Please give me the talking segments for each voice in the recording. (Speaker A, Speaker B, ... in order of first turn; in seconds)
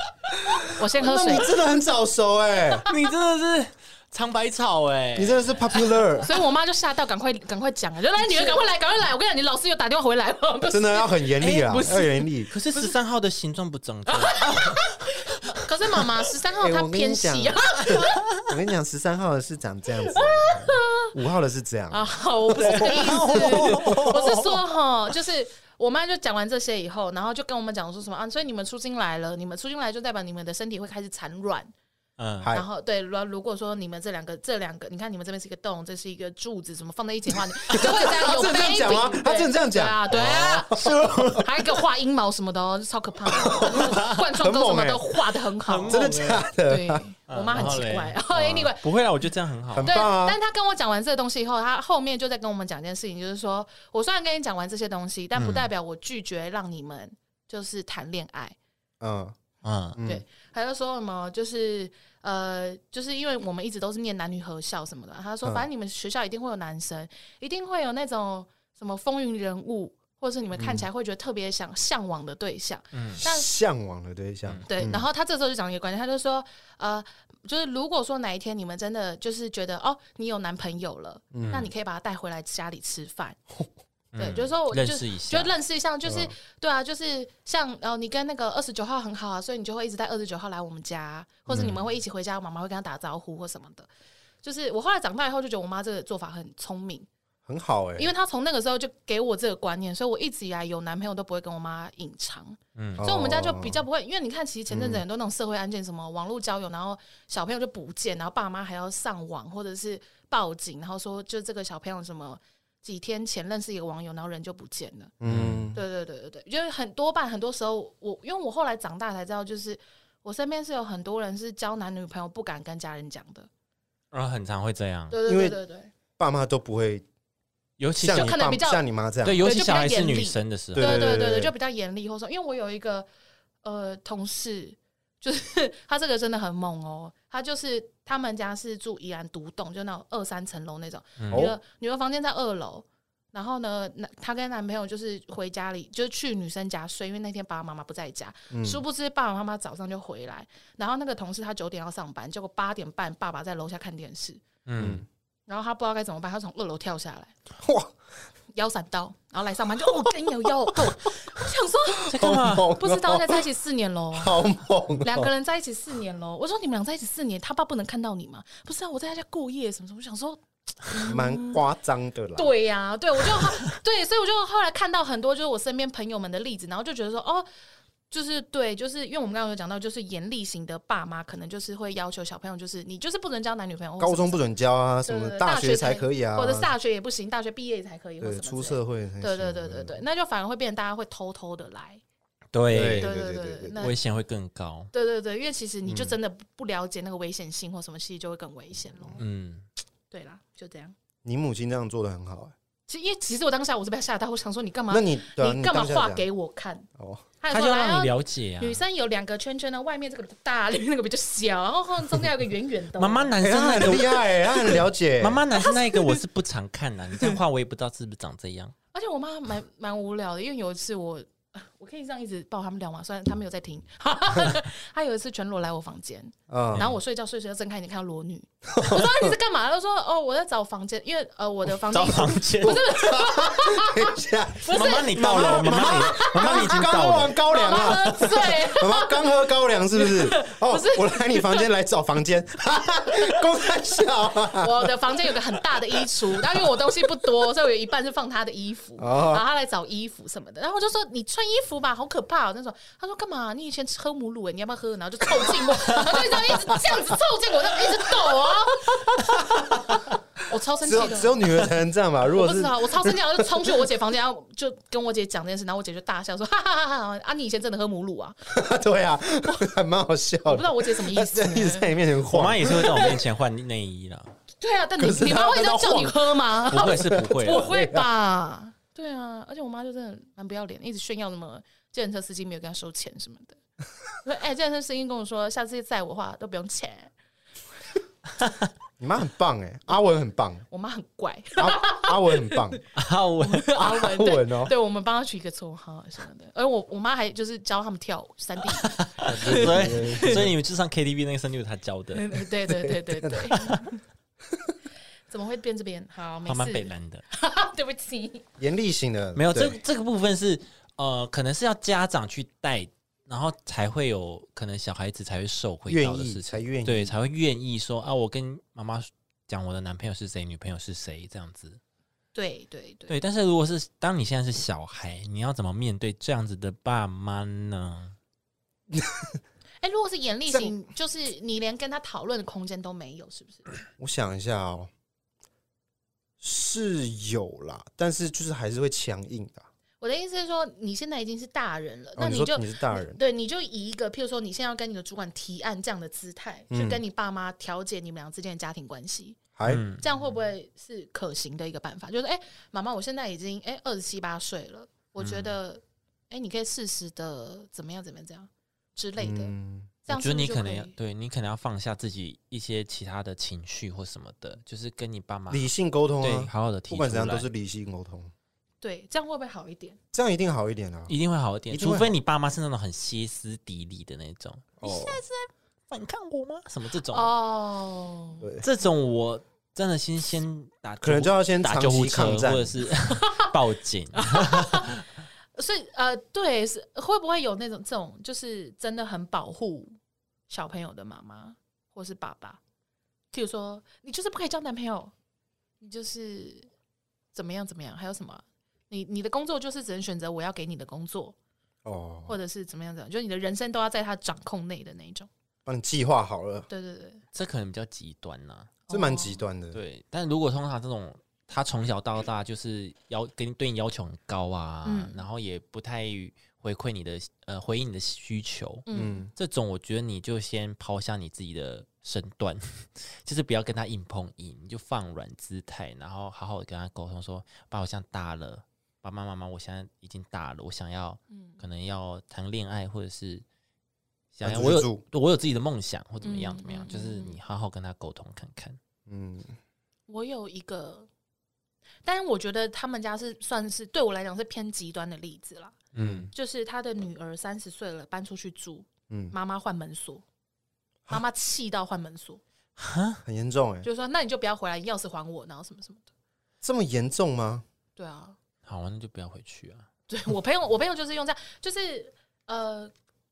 Speaker A: 0.5-2.9, 5.2-6.3, 10.7-12.5, 16.6-24.4, 32.4-32.7, 37.6-41.4, 43.3-45.2, 45.9-47.0, 48.4-48.6, 49.7-50.4, 59.0-59.4, 60.0-60.2, 70.6-70.8, 73.2-75.0, 81.3-81.7, 86.0-86.3, 91.5-91.7, 97.5-98.1, 103.0-103.8, 104.7-105.0, 115.2-115.8, 125.3-125.6, 126.2-127.0, 128.0-129.5, 130.7-131.5, 141.3-141.6, 148.5-148.8, 154.8-155.1, 157.6-157.9, 162.1-163.4, 164.1-165.3, 171.0-172.5, 184.0-186.7, 188.2-190.0, 192.7-193.9, 195.8-196.2, 201.2-202.5, 204.9-206.2, 207.0-207.3, 213.4-215.4, 226.5-226.9, 228.7-229.3, 232.6-246.7, 249.0-249.4, 255.9-257.0, 259.2-260.0, 260.8-263.9, 268.5-273.2, 275.0-278.1, 289.0-290.7, 291.6-292.8, 293.8-294.7, 299.3-300.6, 302.7-303.5, 308.6-309.8, 315.9-317.2, 328.9-329.4, 330.5-330.8, 334.0-334.9, 336.4-339.7, 342.2-343.2, 346.7-347.0, 349.6-349.8, 359.2-359.9, 365.5-368.3, 370.1-371.1, 371.7-372.1, 374.8-375.2, 381.0-382.8, 401.9-402.4, 405.7-406.7, 408.9-409.8, 418.9-419.3, 434.4-435.0, 439.1-439.6, 446.0-446.3, 449.1-449.4, 453.2-453.9, 456.6-457.6
Speaker B: 0.7-1.5, 6.2-12.9, 14.1-18.2, 20.1-21.1, 21.9-31.7, 32.5-48.9, 49.8-58.6, 60.0-73.5, 74.7-83.4, 84.2-93.9, 94.4-97.1, 98.0-115.1, 115.7-123.5, 125.1-125.9, 128.1-128.8, 129.4-133.1, 133.6-154.4, 155.5-157.3, 158.5-164.5, 165.0-171.6, 172.3-177.5, 178.1-184.4, 185.1-192.0, 193.0-194.0, 194.9-199.2, 200.1-200.9, 202.9-206.9, 207.4-213.3, 215.6-216.2, 218.9-239.3, 239.9-241.7, 244.5-261.6, 262.2-268.5, 270.5-272.0, 272.6-273.2, 274.6-283.6, 284.2-287.1, 290.7-292.8, 293.4-300.5, 302.1-304.0, 305.3-308.4, 322.3-323.2, 329.8-333.7, 340.0-349.4, 350.0-359.5, 360.1-360.9, 368.8-370.0, 377.1-378.5, 383.1-383.5, 384.2-385.0, 385.6-389.9, 390.5-392.6, 393.3-395.1, 395.8-396.7, 397.3-401.4, 402.3-405.3, 406.7-407.2, 408.9-409.4, 414.9-415.2, 418.9-419.3, 431.3-431.6, 436.2-437.4, 440.1-441.1, 442.1-445.8, 446.3-450.2, 451.1-452.4, 453.8-456.1, 458.0-458.4, 460.1-462.9
Speaker C: 2.9-6.0, 8.2-8.6, 11.6-11.9, 12.5-14.8, 22.6-24.6, 32.2-32.5, 40.1-41.5, 43.8-44.1, 45.7-46.5, 47.3-50.0, 55.4-55.7, 59.6-60.0, 72.9-73.2, 81.4-81.7, 84.1-85.5, 91.5-91.8, 102.8-103.0, 115.2-115.7, 124.1-125.2, 127.8-128.4, 129.2-131.1, 141.2-141.5, 154.7-155.1, 162.1-162.8, 192.5-193.1, 193.8-194.9, 199.2-199.7, 207.5-208.8, 213.0-218.8, 231.8-232.9, 234.7-238.0, 272.3-274.4, 276.7-277.7, 292.9-293.9, 298.7-302.4, 306.4-307.2, 309.4-321.8, 323.1-328.2, 349.6-350.1, 355.2-355.6, 360.1-367.5, 371.1-377.3, 378.6-385.1, 407.3-408.8, 409.7-433.4, 434.3-438.8, 445.9-446.3, 452.8-453.2, 458.6-459.9